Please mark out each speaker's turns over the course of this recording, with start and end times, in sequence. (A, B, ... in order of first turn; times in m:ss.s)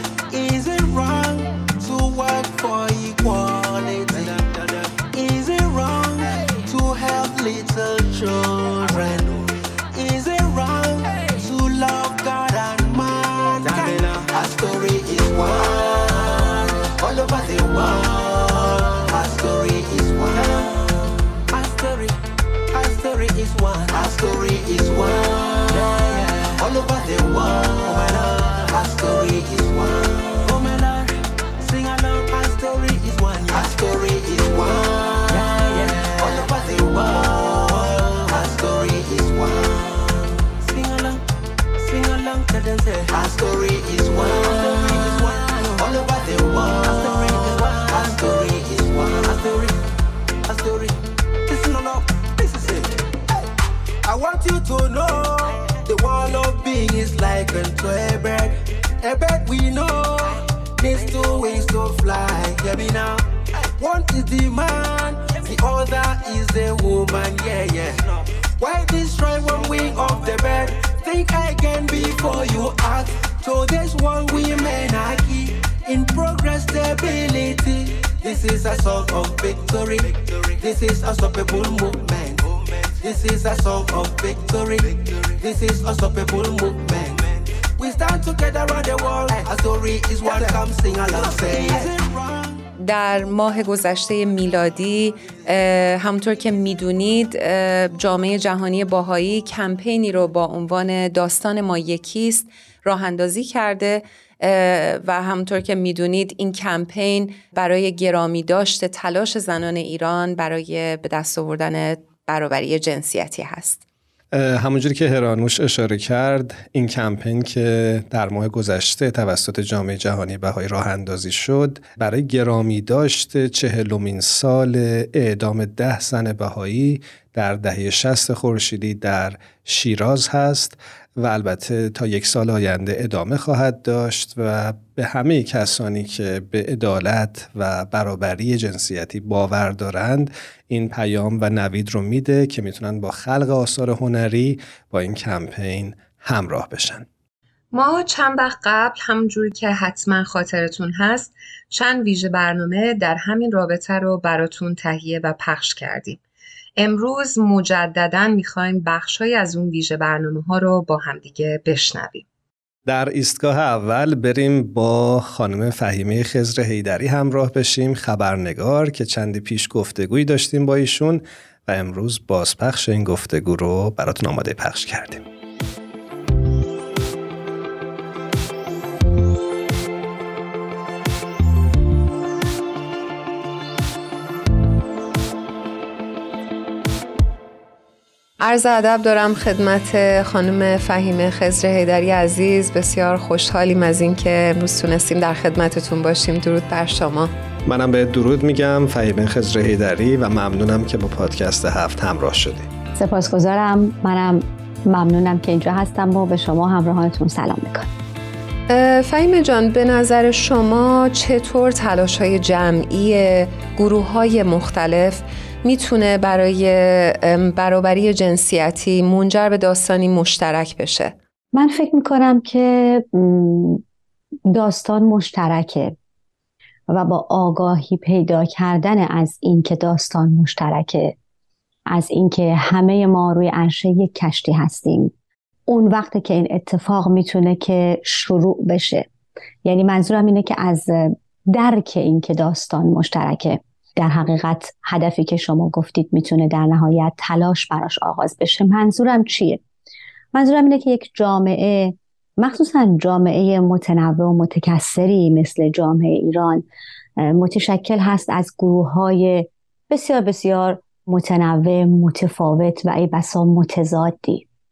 0:00.3-0:20.8 A
0:21.5-0:22.2 A
0:22.7-0:41.2 A
0:41.7-0:49.8 A
0:50.4-0:53.4 A
0:54.0-1:32.6 A
1:32.8-1:53.8 B
1:54.3-2:27.0 C
2:27.7-2:36.2 B
2:36.8-2:42.2 B
2:42.9-2:55.2 C
3:08.4-3:17.3 B
3:17.6-3:22.7 C
3:22.9-3:27.9 D
3:28.7-3:41.1 B
3:41.5-3:43.8 D
3:44.5-3:45.9 D
3:46.9-3:51.1 D
3:51.9-3:55.1 D
3:55.7-3:59.1 D
3:59.6-4:09.6 D
4:10.3-4:16.6 D
4:17.2-4:24.4 D